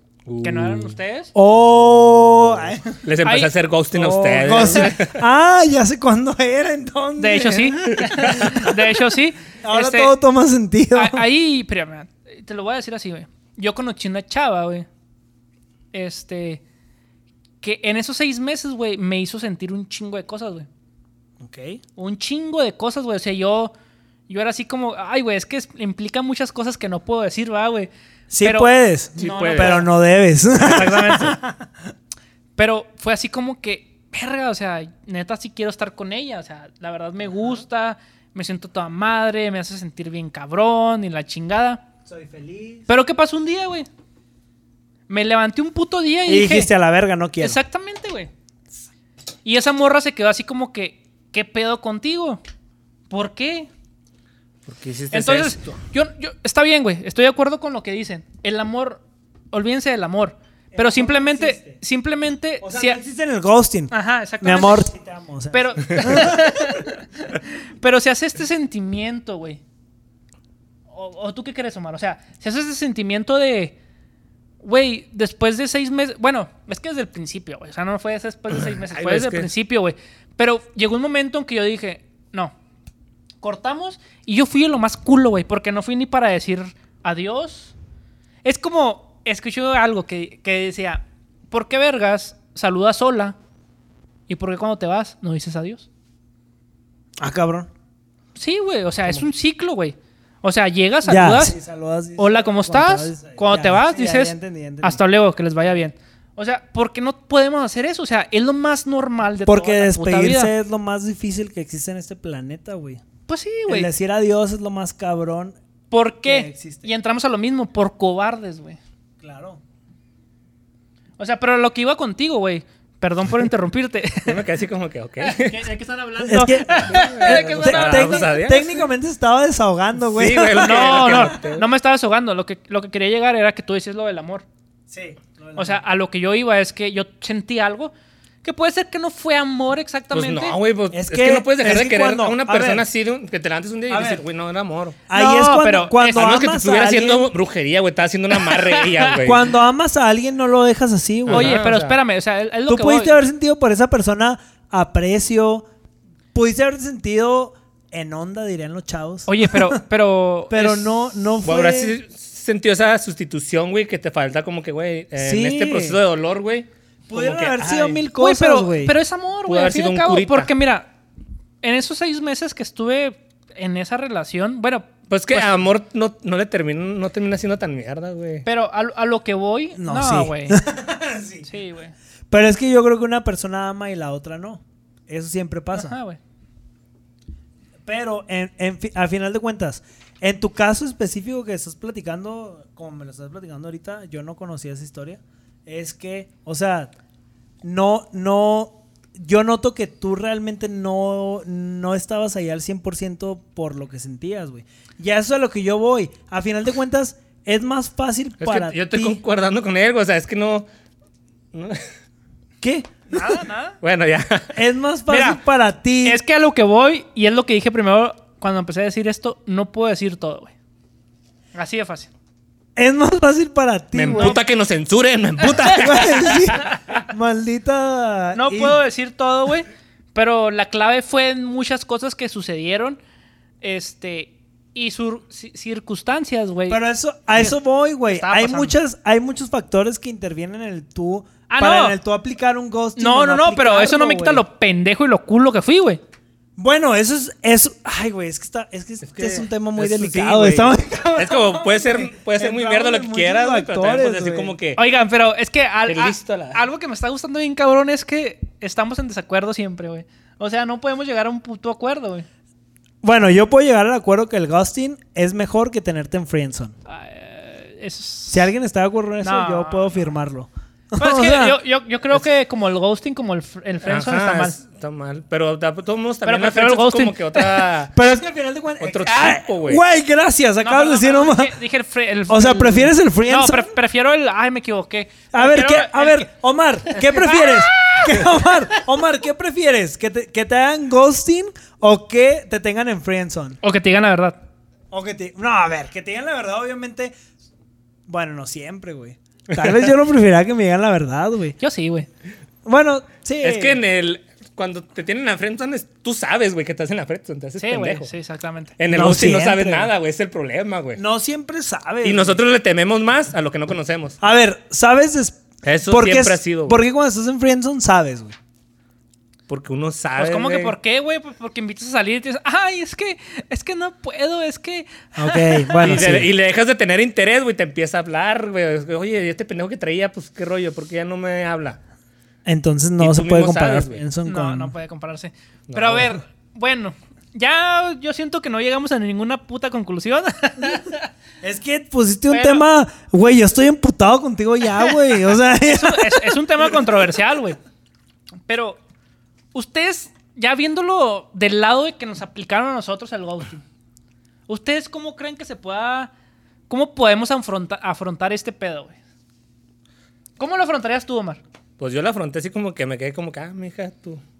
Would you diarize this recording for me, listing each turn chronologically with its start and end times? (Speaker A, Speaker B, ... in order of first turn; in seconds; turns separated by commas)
Speaker A: 0.2-0.9, Speaker B: 0.4-1.3, Speaker C: 1.3-3.0, Speaker A: 3.0-5.2, Speaker B: 3.2-3.5, Speaker C: 3.9-8.7, Speaker B: 7.2-10.1, Speaker A: 7.9-8.6, Speaker C: 9.6-11.2, Speaker B: 10.9-14.9, Speaker B: 15.9-16.6, Speaker B: 17.6-20.7, Speaker C: 21.4-21.8, Speaker B: 21.9-23.7, Speaker B: 24.3-29.9, Speaker C: 28.3-31.7, Speaker A: 29.2-29.8, Speaker B: 30.5-31.4, Speaker B: 32.6-41.8, Speaker C: 42.0-42.9, Speaker B: 42.9-43.9, Speaker B: 45.1-46.7, Speaker C: 46.3-47.6, Speaker B: 47.4-48.3, Speaker B: 49.4-52.4, Speaker B: 53.1-53.7, Speaker A: 54.6-55.8, Speaker B: 55.1-59.0, Speaker B: 59.5-63.0, Speaker C: 60.7-61.8, Speaker C: 62.6-66.7, Speaker B: 63.9-64.9, Speaker B: 65.5-69.6, Speaker B: 70.9-73.8, Speaker B: 74.6-82.5, Speaker A: 78.6-79.5, Speaker B: 83.4-87.7, Speaker B: 88.4-93.3, Speaker B: 94.3-95.9, Speaker C: 97.2-97.7, Speaker B: 98.3-101.5, Speaker C: 101.0-105.0, Speaker B: 102.2-110.5, Speaker C: 109.5-113.0, Speaker B: 113.3-113.9, Speaker C: 113.7-115.5, Speaker B: 115.9-118.8, Speaker C: 116.2-116.9, Speaker C: 119.2-119.6, Speaker B: 121.2-124.4, Speaker A: 124.2-125.6, Speaker B: 125.2-128.3, Speaker C: 126.2-131.3, Speaker A: 126.9-128.7, Speaker A: 130.0-131.6, Speaker B: 130.6-134.4, Speaker C: 134.9-135.8, Speaker B: 135.6-137.9, Speaker B: 138.4-140.6, Speaker A: 140.1-145.0, Speaker C: 140.9-142.8, Speaker C: 143.9-144.2, Speaker C: 145.1-147.3, Speaker B: 145.1-146.2, Speaker A: 146.0-149.5, Speaker B: 148.5-149.1, Speaker C: 149.2-151.6, Speaker A: 151.2-152.0, Speaker B: 151.3-153.2, Speaker C: 152.7-155.7, Speaker C: 156.3-159.8, Speaker B: 159.3-161.0, Speaker C: 160.5-161.9, Speaker A: 161.4-168.0, Speaker C: 165.2-166.0, Speaker C: 167.1-168.9, Speaker B: 168.1-170.9, Speaker A: 169.4-170.5, Speaker B: 171.6-175.5, Speaker A: 175.1-178.4, Speaker B: 178.4-180.6, Speaker C: 179.8-181.5, Speaker B: 181.4-181.9, Speaker C: 182.3-185.9, Speaker B: 185.7-186.2, Speaker C: 187.8-196.9, Speaker C: 197.6-209.2, Speaker A: 208.4-210.7, Speaker A: 211.5-211.9, Speaker C: 212.6-213.0, Speaker B: 213.1-213.8, Speaker A: 213.8-214.5, Speaker C: 214.5-216.2, Speaker B: 215.1-215.4, Speaker B: 216.0-220.5, Speaker B: 221.5-222.1, Speaker C: 222.8-224.4, Speaker A: 223.9-226.8, Speaker B: 224.1-224.4, Speaker B: 225.5-225.7, Speaker C: 225.7-228.8, Speaker B: 228.3-233.0, Speaker B: 233.6-236.8, Speaker C: 236.7-244.4, Speaker B: 238.1-238.7, Speaker B: 241.5-241.9, Speaker B: 243.0-246.0, Speaker C: 246.6-254.5, Speaker A: 249.0-254.8, Speaker B: 254.8-262.3, Speaker A: 255.8-256.6, Speaker C: 263.0-266.7, Speaker B: 266.9-268.5, Speaker C: 268.3-271.6, Speaker B: 269.2-270.0, Speaker B: 271.0-274.6, Speaker A: 273.8-277.9, Speaker B: 276.2-277.5, Speaker C: 277.9-281.5, Speaker A: 278.8-279.8, Speaker B: 280.6-286.3, Speaker C: 282.3-283.7, Speaker C: 285.3-293.6, Speaker B: 286.9-288.8, Speaker B: 293.6-294.4, Speaker C: 294.9-297.1, Speaker C: 298.1-301.6, Speaker B: 301.6-302.1, Speaker C: 302.6-303.8, Speaker A: 303.4-308.1, Speaker B: 307.6-308.7, Speaker A: 308.8-311.0, Speaker C: 308.9-309.9, Speaker C: 310.9-312.4, Speaker A: 312.0-314.2, Speaker C: 314.2-318.4, Speaker A: 315.6-316.8, Speaker A: 319.5-320.7, Speaker B: 320.2-326.0, Speaker C: 325.1-326.3, Speaker A: 325.8-331.8, Speaker C: 332.4-334.7, Speaker A: 333.0-334.0, Speaker B: 334.2-341.1, Speaker A: 335.7-336.1, Speaker C: 341.4-346.6, Speaker B: 342.3-342.6, Speaker B: 345.6-347.6, Speaker B: 348.5-348.8, Speaker B: 349.5-353.6, Speaker B: 354.5-356.1, Speaker B: 356.7-358.9, Speaker B: 360.4-361.4, Speaker A: 361.8-364.2